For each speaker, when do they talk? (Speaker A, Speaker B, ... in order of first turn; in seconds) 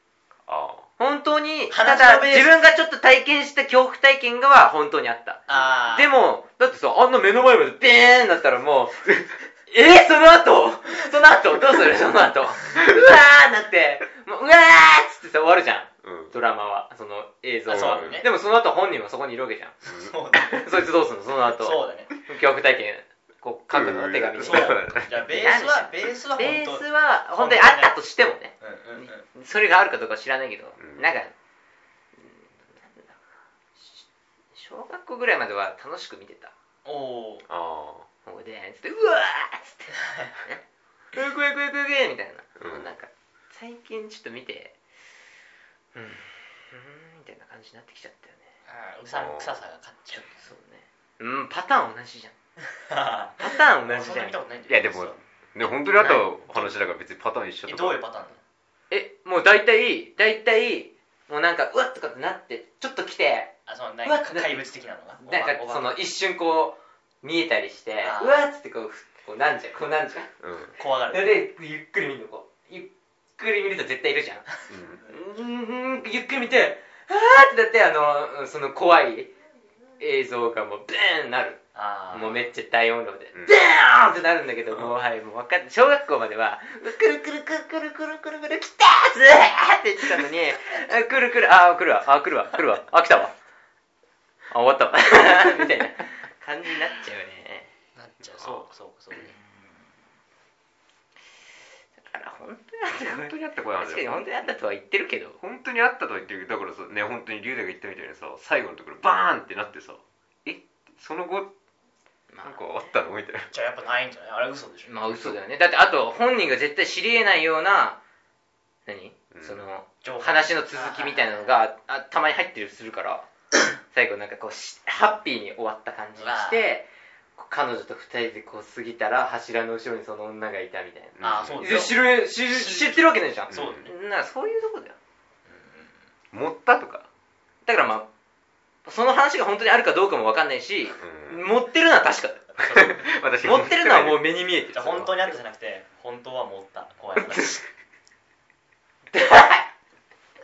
Speaker A: 0.5-0.9, 16.0-16.3, 17.7-18.2, 23.7-25.2, 30.8-31.1, 37.5-38.1, 42.6-42.9, 49.1-49.6, 54.7-58.0, 70.4-70.7, 74.7-75.0, 103.0-104.2, 105.4-111.5, 112.4-113.5, 119.3-119.7, 131.2-131.7, 133.5-133.9, 136.3-137.1, 141.0-141.5, 142.8-144.3
Speaker B: 1.0-19.8, 20.4-31.3, 32.1-33.2, 33.8-36.5, 38.2-40.6, 41.1-44.8, 45.9-48.5, 50.1-52.3, 53.4-54.4, 55.9-56.3, 58.9-64.7, 65.2-70.3, 71.1-74.5, 75.0-79.3, 80.0-81.6, 82.1-93.3, 94.5-97.7, 102.0-105.4, 112.3-113.0, 114.8-118.0, 118.8-123.3, 123.8-135.0, 137.7-138.1, 138.8-142.5, 143.4-145.3, 147.2-147.6, 149.1-149.7
Speaker C: 1.7-2.6, 5.5-6.2, 17.7-18.3, 19.8-20.9, 21.5-22.1, 24.4-27.9, 28.6-29.2, 36.8-37.5, 40.0-40.3, 48.6-50.5, 52.8-55.2, 57.6-58.4, 63.7-66.0, 68.0-68.5, 70.8-71.4, 81.7-82.5, 98.0-99.4, 113.5-115.0, 120.0-121.5, 126.2-126.7, 131.2-133.8, 135.4-136.0, 142.6-143.1, 144.7-147.6